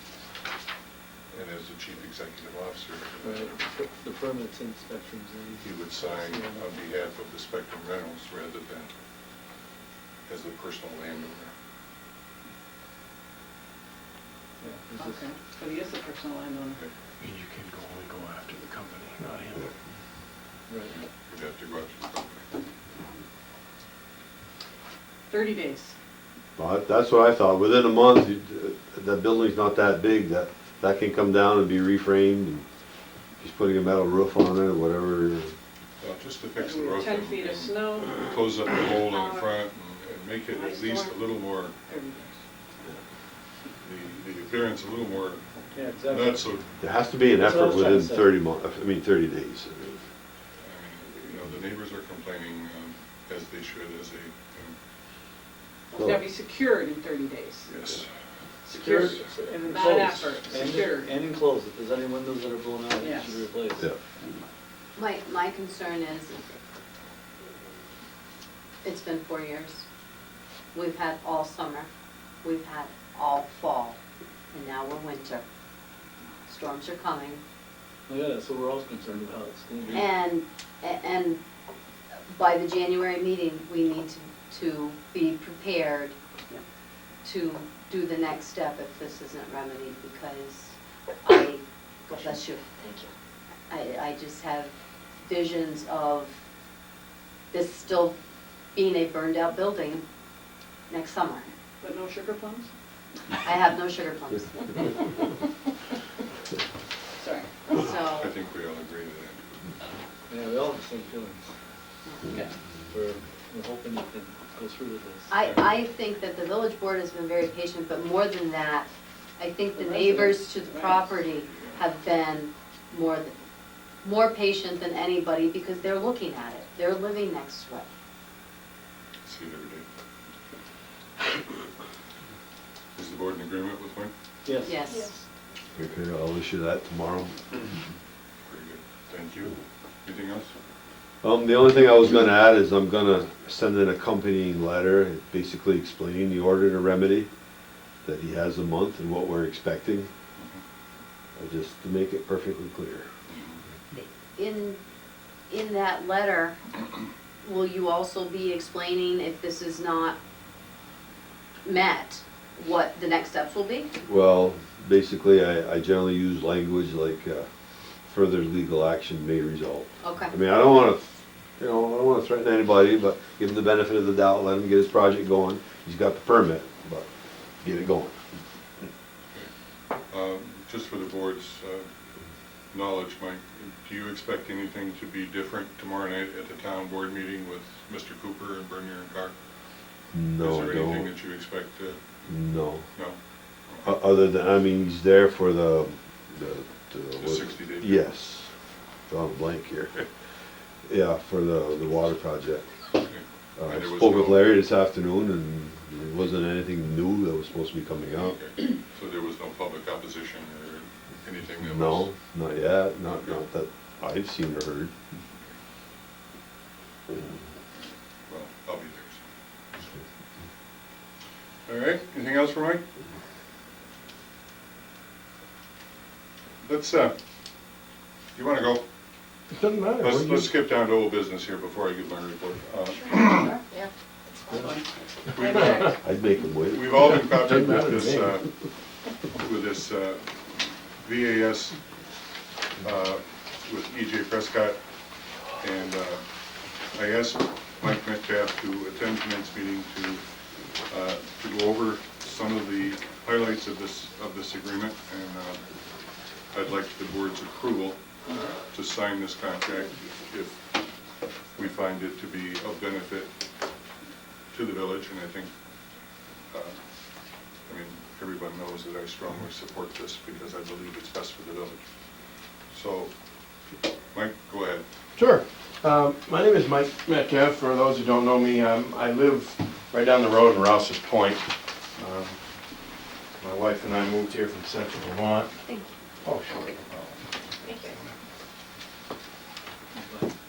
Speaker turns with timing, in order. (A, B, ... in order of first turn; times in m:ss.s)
0:01.3-0:03.6 A
0:03.2-0:06.6 B
0:05.6-0:08.9 A
0:10.3-0:11.5 A
0:14.6-0:15.2 B
0:15.0-0:16.8 C
0:17.2-0:19.7 D
0:20.7-0:21.0 B
0:21.3-0:22.5 A
0:25.3-0:25.9 C
0:26.6-0:32.6 E
0:33.4-0:35.5 E
0:36.0-0:41.8 A
0:36.5-0:38.4 C
0:39.0-0:39.6 C
0:40.5-0:41.2 C
0:41.8-0:42.4 C
0:43.8-0:45.4 A
0:45.7-0:46.4 B
0:46.1-0:46.6 A
0:46.8-0:50.0 E
0:47.4-0:48.3 B
0:50.6-0:54.7 A
0:55.9-0:57.7 C
0:55.9-0:56.2 E
0:57.7-0:58.1 A
0:58.6-1:01.1 C
0:58.7-1:03.9 B
1:03.0-1:03.4 C
1:05.0-1:06.4 F
1:08.8-1:09.8 F
1:10.7-1:11.9 F
1:12.4-1:14.0 F
1:14.5-1:15.4 F
1:16.5-1:17.4 F
1:18.1-1:20.0 B
1:19.9-1:21.4 F
1:22.3-1:26.6 F
1:27.2-1:32.8 F
1:33.7-1:34.7 F
1:35.2-1:36.4 F
1:37.5-1:38.2 F
1:38.7-1:40.0 F
1:40.9-1:41.5 F
1:41.8-1:42.7 C
1:43.4-1:45.1 F
1:47.2-1:47.6 C
1:47.7-1:48.3 F
1:48.1-1:49.3 A
1:50.3-1:51.5 B
1:52.3-1:55.3 B
1:55.3-2:03.3 F
1:59.7-2:01.1 C
2:01.5-2:01.8 A
2:04.0-2:07.9 F
2:09.2-2:09.8 A
2:13.0-2:14.1 A
2:14.4-2:15.1 B
2:14.6-2:15.1 F
2:14.9-2:15.2 C
2:15.7-2:17.4 E
2:18.4-2:20.5 A
2:21.2-2:27.3 E
2:28.0-2:30.1 E
2:30.4-2:30.6 A
2:31.4-2:33.1 E
2:33.3-2:33.6 A
2:33.9-2:34.8 F
2:35.5-2:36.6 F
2:37.4-2:40.2 F
2:41.6-2:43.9 F
2:44.0-2:47.4 E
2:48.0-2:57.1 E
2:50.0-2:50.3 F
2:57.6-2:58.2 E
3:00.1-3:01.9 A
3:02.7-3:09.3 A
3:10.1-3:11.1 E
3:10.4-3:12.0 A
3:12.2-3:12.9 E
3:13.7-3:13.9 A
3:13.8-3:18.5 E
3:17.2-3:18.0 A
3:19.1-3:20.1 E
3:20.9-3:22.7 E
3:23.0-3:24.6 A
3:23.6-3:28.4 E
3:28.2-3:32.1 A
3:31.6-3:34.9 E
3:33.1-3:33.4 A
3:38.3-3:39.2 A
3:41.7-3:42.8 A
3:46.6-3:47.1 A
3:48.3-3:48.8 A
3:49.6-3:50.4 D
3:50.0-3:53.5 A
3:53.0-3:53.9 F
3:54.5-3:54.8 C
3:55.3-3:56.0 A
3:55.3-3:55.9 C
3:55.8-3:57.3 E
3:56.7-3:58.5 A
3:59.4-4:00.2 A
4:01.0-4:01.8 A
4:02.8-4:04.8 A
4:05.6-4:06.2 A
4:06.9-4:10.2 A
4:10.9-4:15.6 A
4:16.5-4:18.0 A
4:18.6-4:20.6 A
4:21.5-4:23.3 A
4:24.5-4:25.5 A
4:26.5-4:26.8 A
4:27.7-4:31.8 A
4:32.7-4:33.1 A
4:34.1-4:34.8 A
4:35.2-4:41.4 D
4:42.0-4:42.4 D
4:43.4-4:45.5 D
4:46.2-4:47.0 D
4:49.9-4:50.3 B